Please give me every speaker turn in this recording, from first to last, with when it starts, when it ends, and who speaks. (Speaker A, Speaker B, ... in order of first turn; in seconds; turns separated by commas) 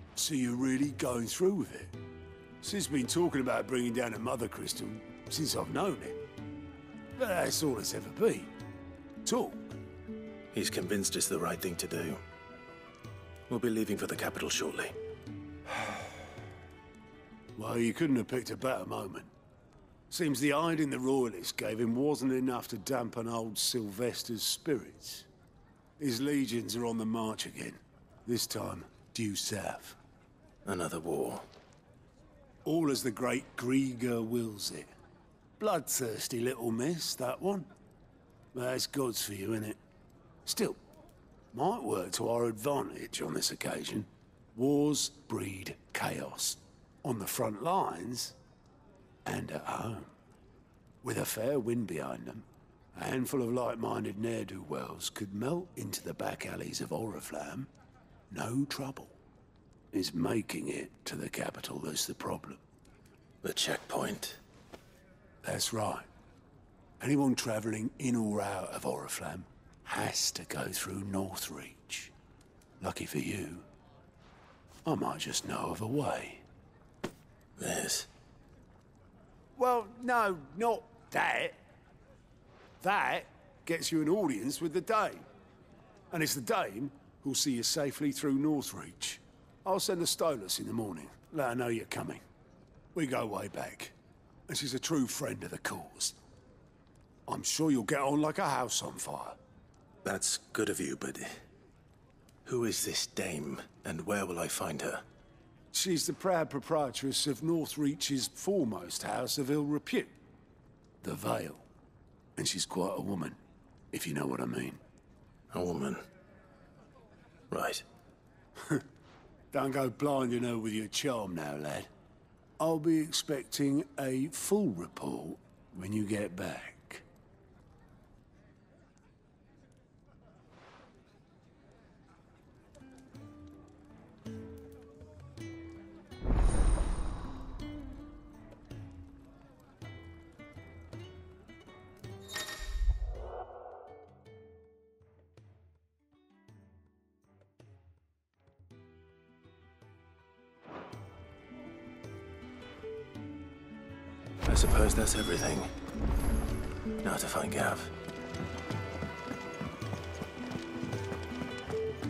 Speaker A: 0.2-1.9, Speaker A: 2.6-6.2, Speaker A: 7.2-8.5, Speaker A: 9.2-9.7, Speaker B: 10.5-12.2, Speaker B: 13.5-14.9, Speaker A: 17.6-19.3, Speaker A: 20.1-25.3, Speaker A: 26.0-30.0, Speaker B: 30.7-31.5, Speaker A: 32.6-34.9, Speaker A: 35.6-37.7, Speaker A: 38.5-39.8, Speaker A: 40.5-40.8, Speaker A: 41.5-48.4, Speaker A: 49.3-50.1, Speaker A: 51.0-57.7, Speaker A: 58.3-59.1, Speaker A: 59.9-62.6, Speaker B: 63.4-64.4, Speaker A: 65.4-66.1, Speaker A: 67.0-72.1, Speaker A: 72.8-73.7, Speaker A: 74.9-76.4, Speaker B: 77.6-78.1, Speaker A: 79.6-81.6, Speaker A: 82.8-85.3, Speaker A: 86.1-92.2, Speaker A: 93.0-93.9, Speaker A: 94.5-96.2, Speaker A: 97.3-99.4, Speaker B: 100.0-101.3, Speaker B: 102.5-105.0, Speaker A: 105.7-110.1, Speaker A: 111.0-111.6, Speaker A: 112.4-113.4, Speaker A: 113.9-114.8, Speaker B: 115.5-116.0, Speaker B: 117.5-117.8, Speaker A: 119.5-121.9, Speaker A: 122.6-127.0, Speaker B: 154.5-155.7, Speaker B: 157.0-157.9